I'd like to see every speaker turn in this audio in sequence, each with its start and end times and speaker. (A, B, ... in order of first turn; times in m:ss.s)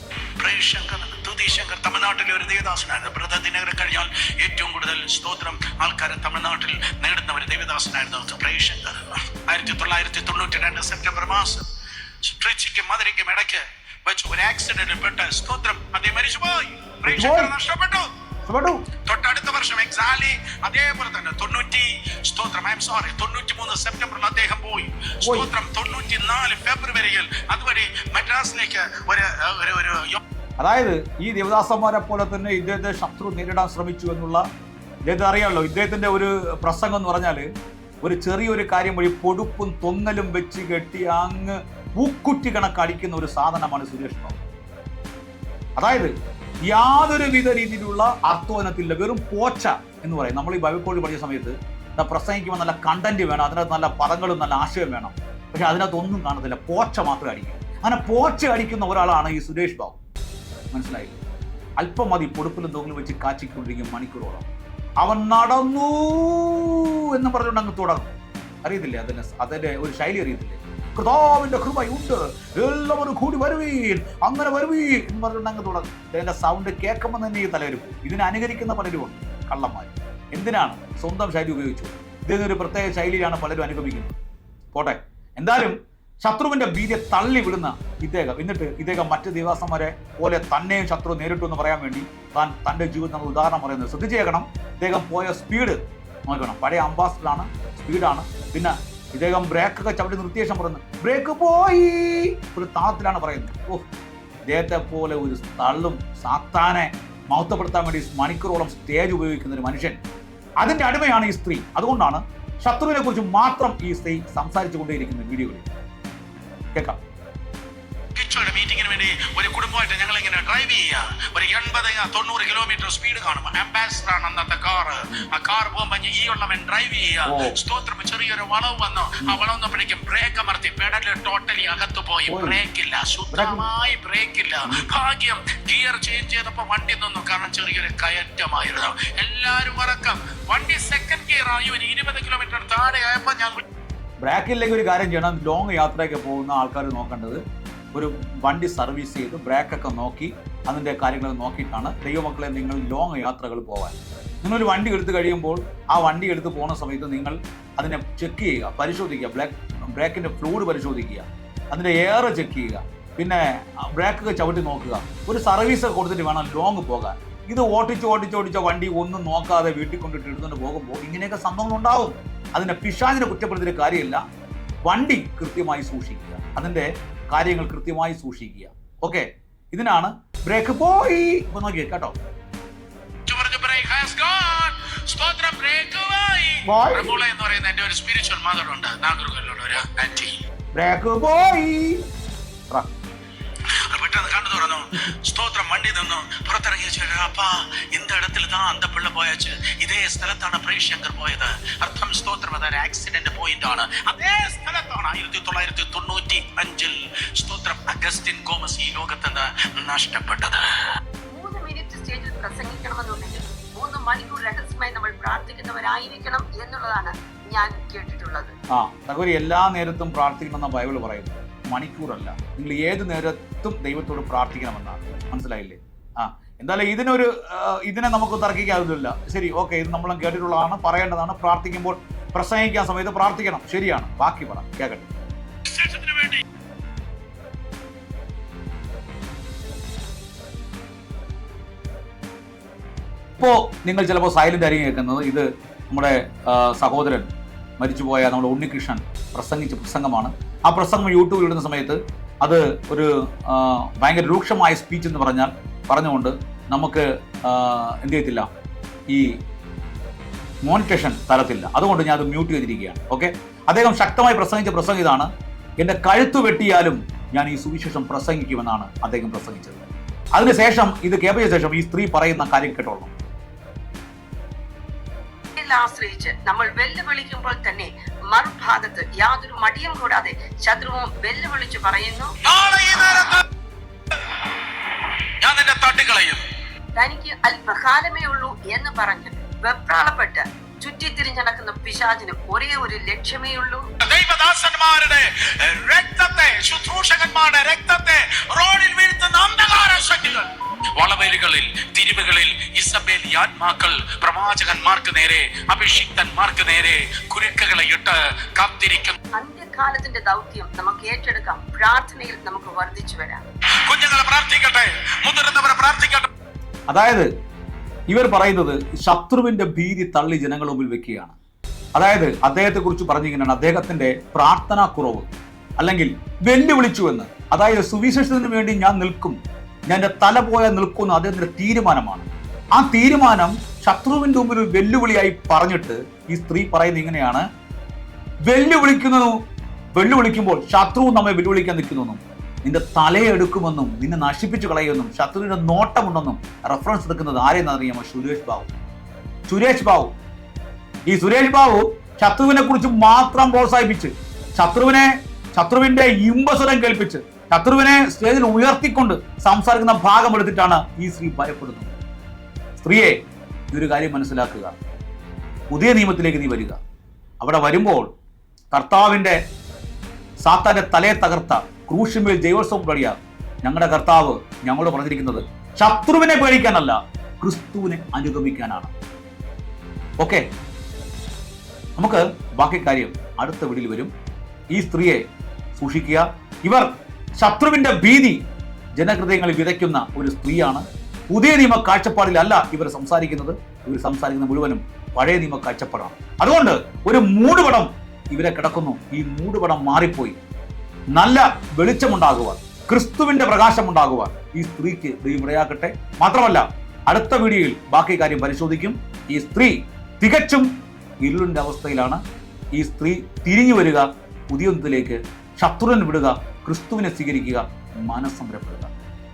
0:00.4-0:11.6 A
0:12.2-0:18.1 A
0:17.0-0:17.5 B
0:18.4-0:18.9 B
0:19.0-0:30.2 A
0:25.2-0:25.5 B
0:30.6-0:34.4 B
0:35.1-0:37.5 B
0:38.0-0:44.4 B
0:45.8-0:46.1 B
0:46.6-1:00.0 B
1:00.7-1:01.2 B
1:01.8-1:04.5 B
1:05.0-1:08.1 B
1:08.6-1:24.2 B
1:24.7-1:43.9 B
1:44.5-1:50.0 B
1:50.6-1:55.7 B
1:56.7-1:57.0 B
1:58.1-2:23.6 A
2:07.2-2:07.6 B
2:12.3-2:12.6 B
2:13.3-2:13.7 B
2:24.2-2:27.4 B
2:27.9-2:54.2 B
2:54.8-3:02.2 B
3:03.3-3:10.4 A
3:06.6-3:07.1 B
3:10.7-3:12.0 B
3:13.7-3:30.9 A
3:31.3-3:38.5 C
3:38.7-3:55.1 B
3:55.6-3:56.4 A
4:03.4-4:07.3 B
4:07.8-4:18.5 B
4:19.1-4:19.4 B
4:20.6-4:25.3 B
4:25.8-4:29.8 B
4:30.4-4:33.1 B
4:35.6-4:42.4 C
4:42.4-4:43.4 A
4:45.4-4:46.4 A
4:47.0-4:53.9 C
4:54.0-5:09.2 A
5:09.4-5:13.4 C
5:13.8-5:16.3 A
5:16.9-5:17.3 B
5:18.1-5:21.4 B
5:22.0-5:37.4 B
5:38.5-5:39.4 B
5:40.0-5:48.7 B
5:49.5-5:50.1 B
5:51.1-6:01.9 B
6:02.8-6:04.8 B
6:05.7-6:06.8 B
6:07.4-6:08.1 B
6:08.7-6:09.4 B
6:10.4-6:18.9 B
6:20.2-6:20.5 B
6:22.0-6:24.1 B
6:24.7-6:25.2 B
6:25.7-6:28.4 B
6:29.0-6:40.4 B
6:41.2-6:50.7 B
6:51.2-6:52.2 B
6:52.7-6:58.9 B